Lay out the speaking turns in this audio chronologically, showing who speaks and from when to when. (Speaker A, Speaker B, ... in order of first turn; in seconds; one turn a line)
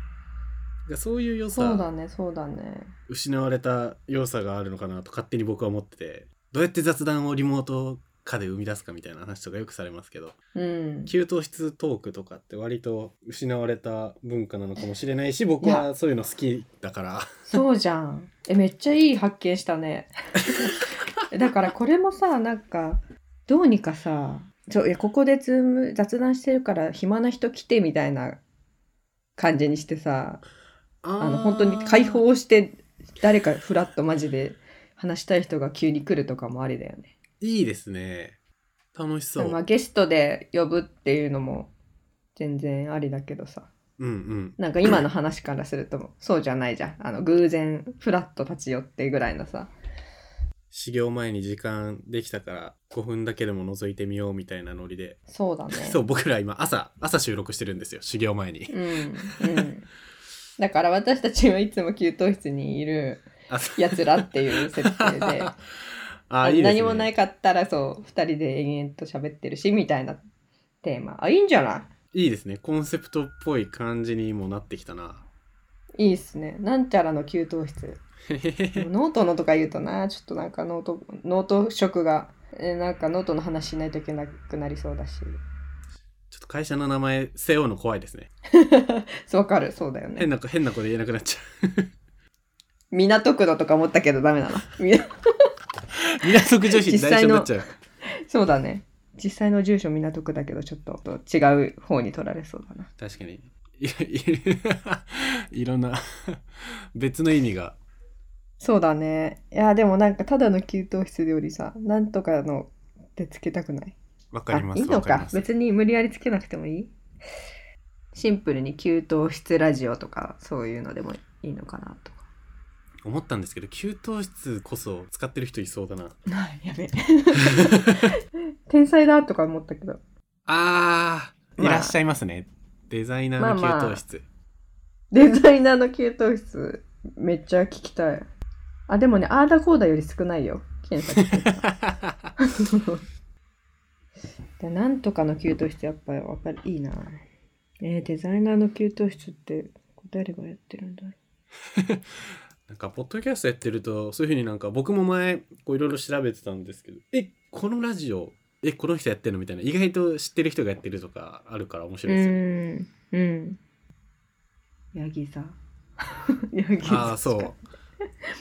Speaker A: 0.9-1.9
Speaker B: 1.5-2.9
Speaker A: 3.1-10.4
Speaker B: 10.6-11.1
Speaker A: 11.1-17.3
Speaker B: 15.6-15.9
Speaker B: 17.5-28.4
Speaker B: 29.4-30.4
Speaker A: 31.0-32.2
Speaker B: 31.2-37.1
Speaker A: 37.4-38.4
Speaker A: 39.0-39.6
Speaker B: 39.4-41.7
Speaker B: 42.4-43.7
Speaker A: 44.0-44.6
Speaker B: 44.6-49.7
Speaker A: 50.7-55.2
Speaker B: 55.3-56.0
Speaker A: 55.7-59.7
Speaker B: 58.7-59.9
Speaker B: 60.6-65.6
Speaker A: 63.5-65.5
Speaker A: 66.3-67.1
Speaker B: 66.4-70.2
Speaker B: 70.8-71.9
Speaker A: 72.1-75.2
Speaker B: 76.0-78.0
Speaker A: 78.3-78.9
Speaker B: 78.7-85.4
Speaker A: 86.3-88.3
Speaker B: 88.5-90.3
Speaker A: 90.2-91.9
Speaker B: 92.9-95.1
Speaker A: 96.2-97.7
Speaker B: 96.7-97.5
Speaker B: 98.3-102.9
Speaker A: 103.0-107.8
Speaker B: 108.6-114.0
Speaker A: 114.3-115.5
Speaker B: 114.5-117.0
Speaker B: 118.1-122.3
Speaker A: 123.0-126.2
Speaker B: 126.3-128.1
Speaker B: 128.7-130.0
Speaker A: 130.5-134.2
Speaker B: 131.6-132.0
Speaker B: 133.4-134.0
Speaker B: 135.1-138.3
Speaker B: 138.9-141.7
Speaker A: 141.6-142.1
Speaker B: 142.5-143.0
Speaker B: 144.6-147.2
Speaker B: 147.8-151.2
Speaker A: 151.8-152.0
Speaker A: 152.7-162.4
Speaker B: 162.1-163.6
Speaker B: 164.9-165.6
Speaker B: 166.5-167.6
Speaker A: 166.8-167.6